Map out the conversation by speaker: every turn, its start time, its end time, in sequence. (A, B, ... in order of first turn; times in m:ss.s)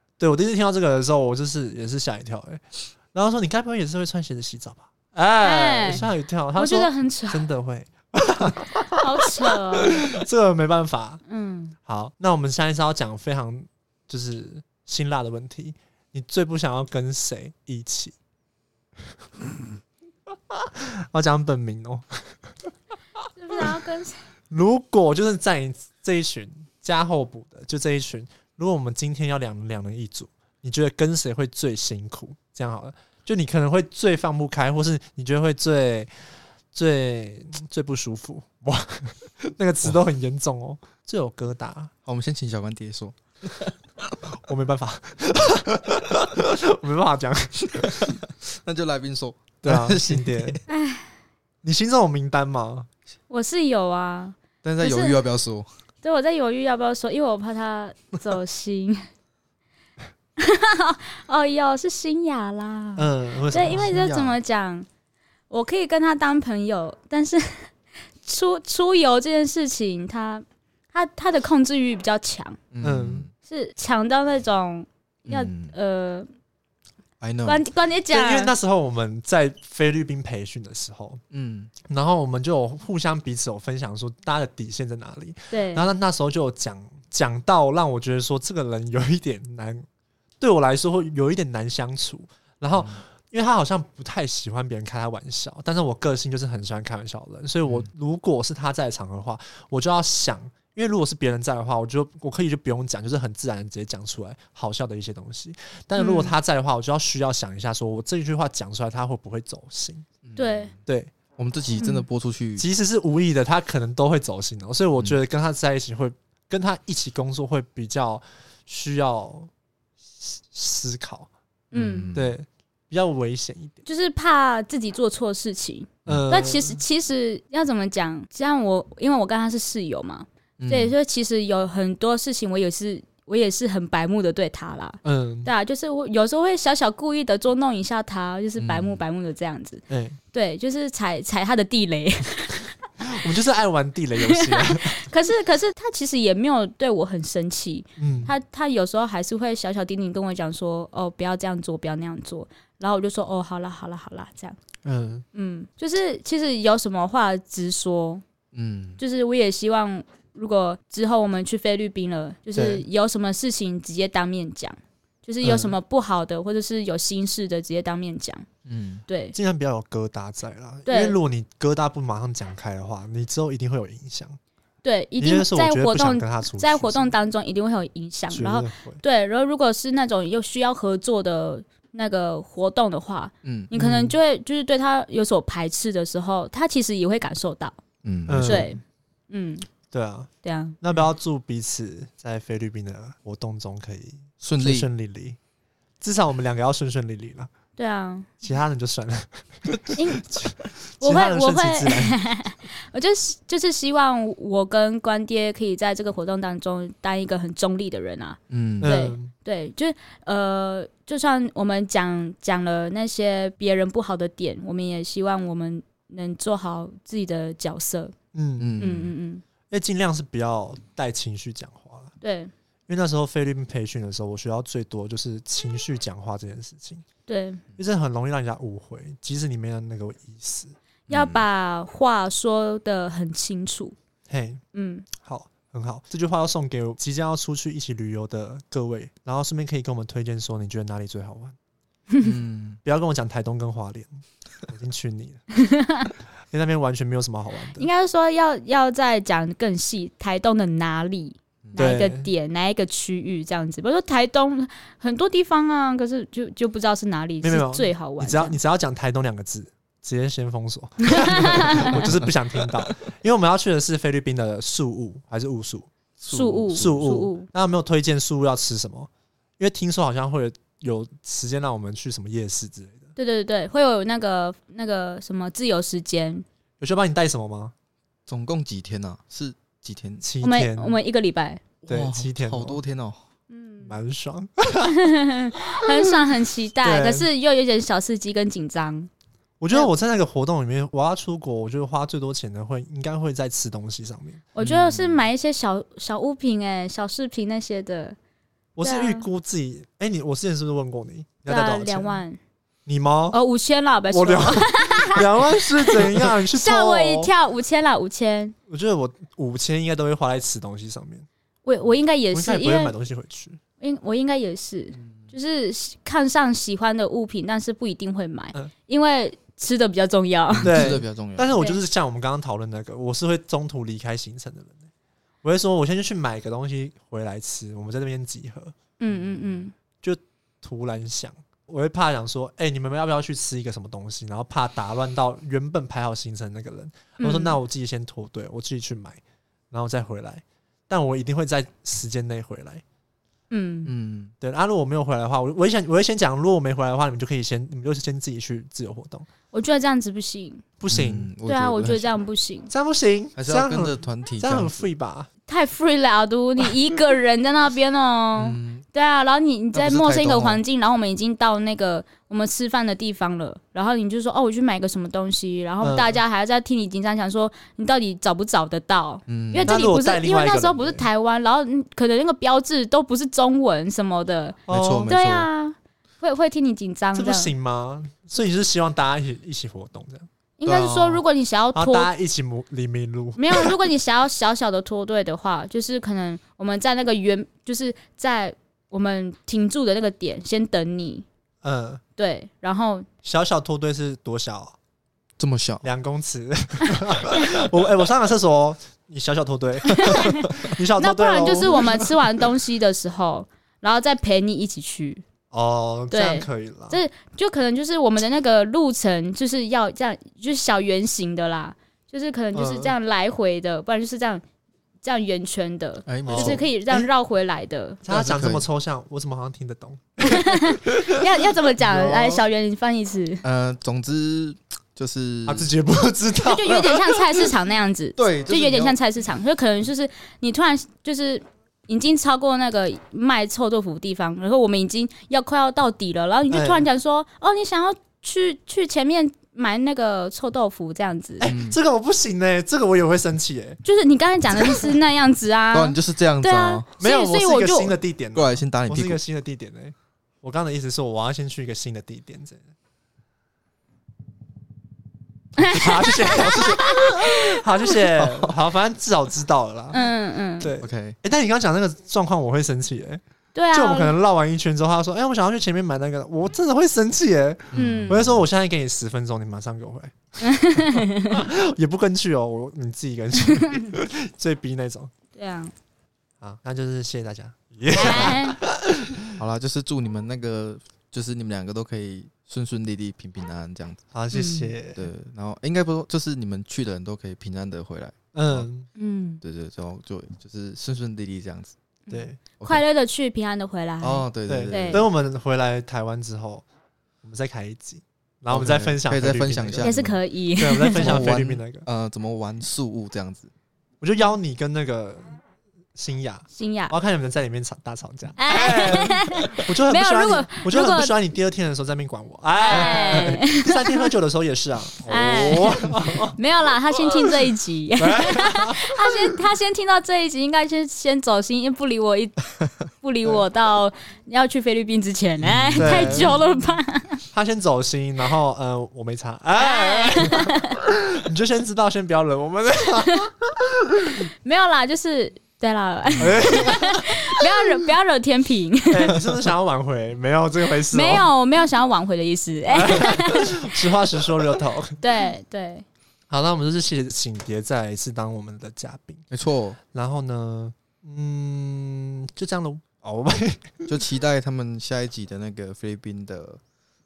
0:00.2-0:08.9 A
0:05.4-0:06.0 B
0:05.9-0:06.1 C
0:06.6-0:07.5 B
0:08.6-0:10.0 B
0:09.8-0:11.2 A
0:11.3-0:11.8 B
0:11.8-0:18.2 A
0:20.5-0:22.4 A
0:23.4-0:24.2 B
0:24.5-0:36.1 A
0:36.7-0:41.9 A
0:42.1-0:43.7 C
0:44.4-0:48.2 A
0:48.4-0:50.6 C
0:49.6-0:50.6 A
0:50.7-0:51.1 B
0:51.6-0:52.9 A
0:53.3-0:55.3 B
0:54.6-0:55.7 C
0:56.0-0:59.0 B
1:00.4-1:04.9 B
1:03.0-1:04.0 A
1:03.7-1:04.4 C
1:05.5-1:07.7 B
1:08.2-1:12.6 B
1:12.7-1:13.3 C
1:12.8-1:13.3 A
1:13.5-1:16.3 B
1:15.3-1:15.8 C
1:17.2-1:17.6 C
1:17.5-1:18.5 B
1:18.1-1:21.2 A
1:21.3-1:21.7 C
1:21.9-1:29.9 A
1:25.5-1:25.8 B
1:30.4-1:50.1 A
1:32.7-1:33.0 C
1:46.0-1:46.4 B
1:50.2-1:50.8 C
1:50.4-1:50.7 B
1:50.9-1:51.1 A
1:51.4-1:52.7 C
1:51.8-1:52.1 B
1:52.6-1:59.5 A
2:00.2-2:01.3 A
2:01.7-2:02.1 B
2:01.7-2:02.4 C
2:02.1-2:03.8 A
2:03.8-2:22.7 B
2:06.1-2:06.8 A
2:10.6-2:11.0 C
2:15.0-2:15.5 A
2:18.6-2:19.0 C
2:19.9-2:20.2 A
2:23.0-2:25.1 A
2:24.3-2:34.6 B
2:28.0-2:28.3 A
2:34.8-2:35.2 A
2:35.3-2:38.2 B
2:38.5-2:39.0 C
2:39.0-2:48.5 B
2:42.5-2:42.8 A
2:45.4-2:45.8 A
2:48.7-2:49.0 C
2:49.1-2:49.4 B
2:49.4-2:54.4 A
2:50.9-2:51.2 B
2:54.8-3:07.8 B
2:55.2-2:57.1 A
2:58.3-2:59.0 A
3:03.4-3:03.7 C
3:03.7-3:04.2 A
3:08.0-3:08.7 C
3:08.3-3:08.7 A
3:08.4-3:09.6 B
3:09.9-3:15.4 A
3:10.4-3:10.8 B
3:14.4-3:14.9 C
3:16.0-3:17.5 A
3:17.8-3:18.3 B
3:18.4-3:22.2 A
3:20.0-3:20.3 B
3:21.0-3:38.1 B
3:28.5-3:29.0 C
3:28.8-3:29.3 A
3:38.3-3:38.7 A
3:38.6-3:39.2 C
3:38.8-3:39.4 B
3:39.7-3:42.1 A
3:42.2-3:42.5 B
3:42.9-3:47.0 A
3:47.3-3:47.6 B
3:47.8-3:50.8 A
3:51.1-3:51.5 C
3:51.1-3:54.0 B
3:54.3-3:54.6 A
3:54.7-3:55.1 B
3:55.2-4:01.6 A
4:02.2-4:02.8 C
4:02.8-4:05.4 A
4:05.7-4:06.1 B
4:06.5-4:07.9 A
4:07.8-4:18.6 B
4:11.8-4:12.3 A
4:17.4-4:25.9 A
4:21.2-4:21.9 B
4:22.0-4:22.3 C
4:26.2-4:27.0 C
4:26.3-4:27.5 B
4:26.7-4:33.1 A
4:33.2-4:36.4 B
4:36.8-4:37.7 A
4:38.3-4:40.2 C
4:40.2-4:41.0 A
4:40.4-4:41.6 B
4:41.8-4:43.2 C
4:41.9-4:42.8 A
4:43.5-4:44.0 B
4:43.9-4:45.0 A
4:44.9-4:49.1 B
4:46.8-4:47.3 A
4:49.6-4:54.4 A
4:54.5-4:58.2 B
4:54.6-4:55.2 C
4:58.8-5:02.2 A
4:58.8-4:59.3 B
5:01.4-5:02.4 B
5:02.9-5:03.4 A
5:03.3-5:05.3 B
5:04.1-5:07.3 A
5:05.9-5:08.6 B
5:08.7-5:11.3 A
5:11.6-5:12.9 B
5:12.3-5:13.6 A
5:13.8-5:20.9 B
5:14.9-5:15.3 C
5:20.5-5:21.6 C
5:20.6-5:24.9 A
5:21.5-5:21.8 B
5:25.4-5:28.7 A
5:29.0-5:29.7 B
5:29.1-5:29.4 C
5:30.0-5:42.8 A
5:37.2-5:37.6 B
5:43.5-5:43.9 B
5:43.9-5:44.3 C
5:44.4-5:49.3 A
5:49.5-5:50.6 B
5:50.8-5:51.3 A
5:50.9-5:52.2 C
5:51.5-5:52.7 B
5:52.7-5:55.3 A
5:53.4-5:54.9 C
5:55.5-6:17.6 B
5:58.4-5:58.9 C
5:59.7-6:00.6 C
6:05.8-6:06.2 A
6:09.3-6:09.8 C
6:09.6-6:11.1 A
6:14.7-6:15.1 A
6:14.7-6:15.5 C
6:17.1-6:20.3 A
6:20.6-6:22.1 B
6:20.6-6:21.2 C
6:21.7-6:23.7 A
6:23.4-6:31.2 B
6:31.6-6:32.0 A
6:32.2-6:33.1 B
6:33.2-6:34.8 A
6:35.4-6:35.8 C
6:35.8-6:42.1 A
6:41.0-6:45.2 B
6:41.4-6:41.7 C
6:45.5-6:47.0 A
6:46.1-6:54.4 B
6:52.5-6:53.0 A
6:55.0-6:58.0 B
6:56.1-6:56.7 C
6:56.2-6:57.1 A
6:58.0-7:01.2 A
6:58.1-6:58.7 C
7:00.2-7:03.4 B
7:01.8-7:02.4 A
7:01.9-7:02.4 C
7:03.4-7:05.7 C
7:05.5-7:06.8 A
7:06.4-7:21.5 B
7:06.7-7:07.0 C
7:08.2-7:09.0 C
7:16.5-7:16.9 A
7:21.4-7:23.8 A
7:21.4-7:21.8 C
7:23.8-7:28.0 B
7:24.5-7:24.8 A
7:25.7-7:26.9 C
7:27.0-7:32.6 A
7:28.3-7:29.2 C
7:35.6-7:37.6 B
7:35.6-7:43.2 A
7:38.2-7:38.6 C
7:39.9-7:40.7 B
7:40.8-7:41.2 C
7:43.6-7:44.2 B
7:43.7-7:55.1 A
7:47.7-7:48.2 B
7:47.7-7:48.5 C
7:50.4-7:51.4 B
7:55.4-7:55.7 B
7:56.4-7:58.9 A
7:57.9-7:58.6 B
7:59.4-8:04.0 C
8:04.1-8:05.1 A
8:04.3-8:04.7 B
8:05.0-8:08.7 C
8:08.3-8:08.9 A
8:09.0-8:09.4 B
8:09.4-8:11.8 C
8:12.1-8:15.0 B
8:12.1-8:12.4 A
8:12.6-8:12.8 C
8:14.0-8:15.1 C
8:14.5-8:16.6 A
8:17.2-8:20.0 A
8:18.5-8:20.2 C
8:19.8-8:21.3 B
8:20.6-8:21.8 A
8:21.0-8:23.5 C
8:24.0-8:25.4 A
8:26.0-8:36.4 A
8:26.5-8:27.0 B
8:28.4-8:31.1 B
8:32.6-8:34.1 B
8:35.1-8:47.2 B
8:38.0-8:39.1 A
8:45.4-8:46.4 C
8:45.8-8:46.4 A
8:47.3-8:53.5 A
8:49.6-8:50.7 B
8:54.4-8:59.2 B
8:56.2-8:57.4 A
8:58.9-9:01.3 A
9:00.9-9:03.6 B
9:02.7-9:05.0 A
9:05.0-9:05.8 B
9:06.3-9:09.2 A
9:09.3-9:09.8 C
9:09.9-9:13.7 A
9:13.9-9:16.6 C